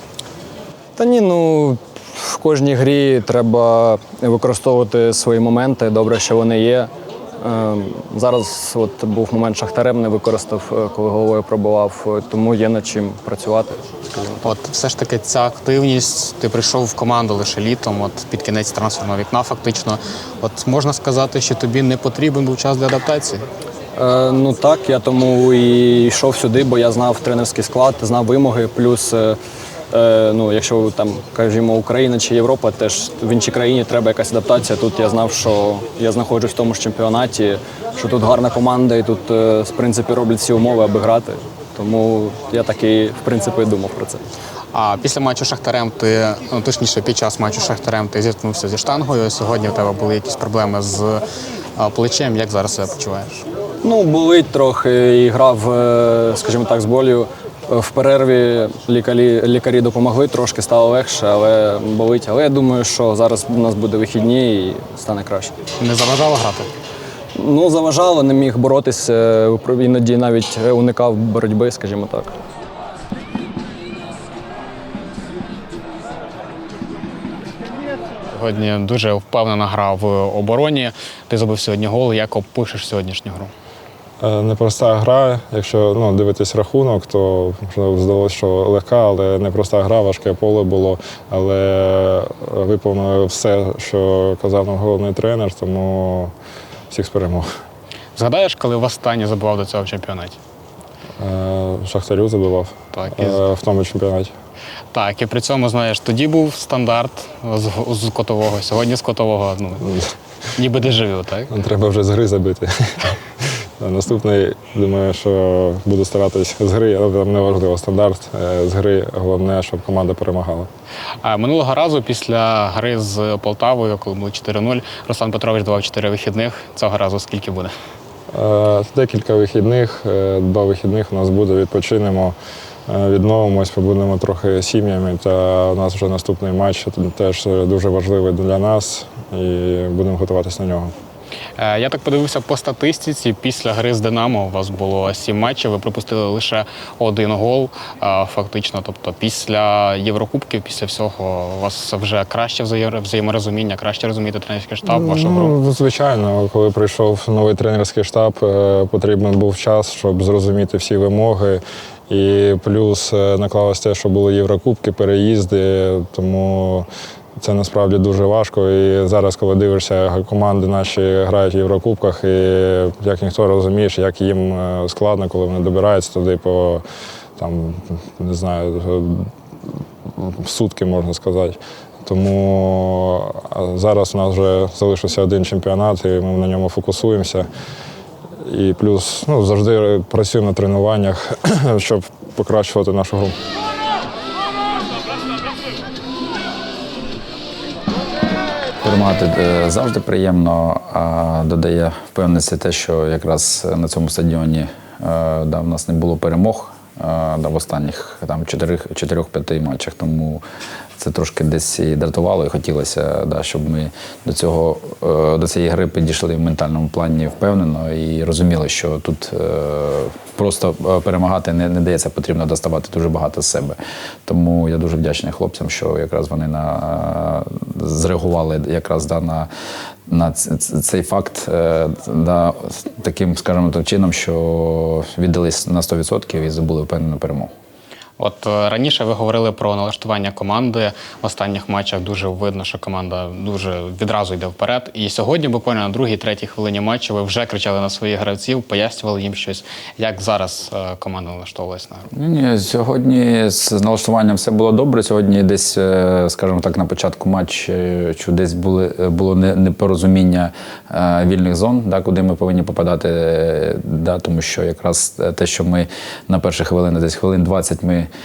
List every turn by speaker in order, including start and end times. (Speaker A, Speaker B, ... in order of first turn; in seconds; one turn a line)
Speaker A: 1.0-14.4
Speaker B: 14.4-23.4
Speaker A: 23.9-29.4
Speaker A: 29.9-44.2
Speaker B: 44.7-51.2
Speaker B: 51.8-53.4
Speaker A: 53.8-65.5
Speaker B: 65.8-66.7
Speaker A: 67.3-72.3
Speaker B: 78.3-83.5
Speaker C: 84.2-96.3
Speaker C: 96.9-97.5
Speaker B: 98.2-100.4
Speaker C: 101.2-104.3
Speaker B: 102.9-103.4
Speaker B: 104.9-109.9
Speaker B: 110.5-111.5
Speaker C: 111.5-120.7
Speaker B: 121.2-127.7
Speaker C: 128.3-132.3
Speaker C: 132.9-140.9
Speaker B: 141.6-155.6
Speaker C: 154.9-166.9
Speaker C: 167.4-176.8
Speaker C: 177.4-179.3
Speaker C: 180.0-187.5
Speaker C: 188.4-193.3
Speaker D: 198.8-210.4
Speaker D: 211.0-229.5
Speaker D: 230.1-237.5
Speaker B: 238.2-252.1
Speaker D: 252.1-268.1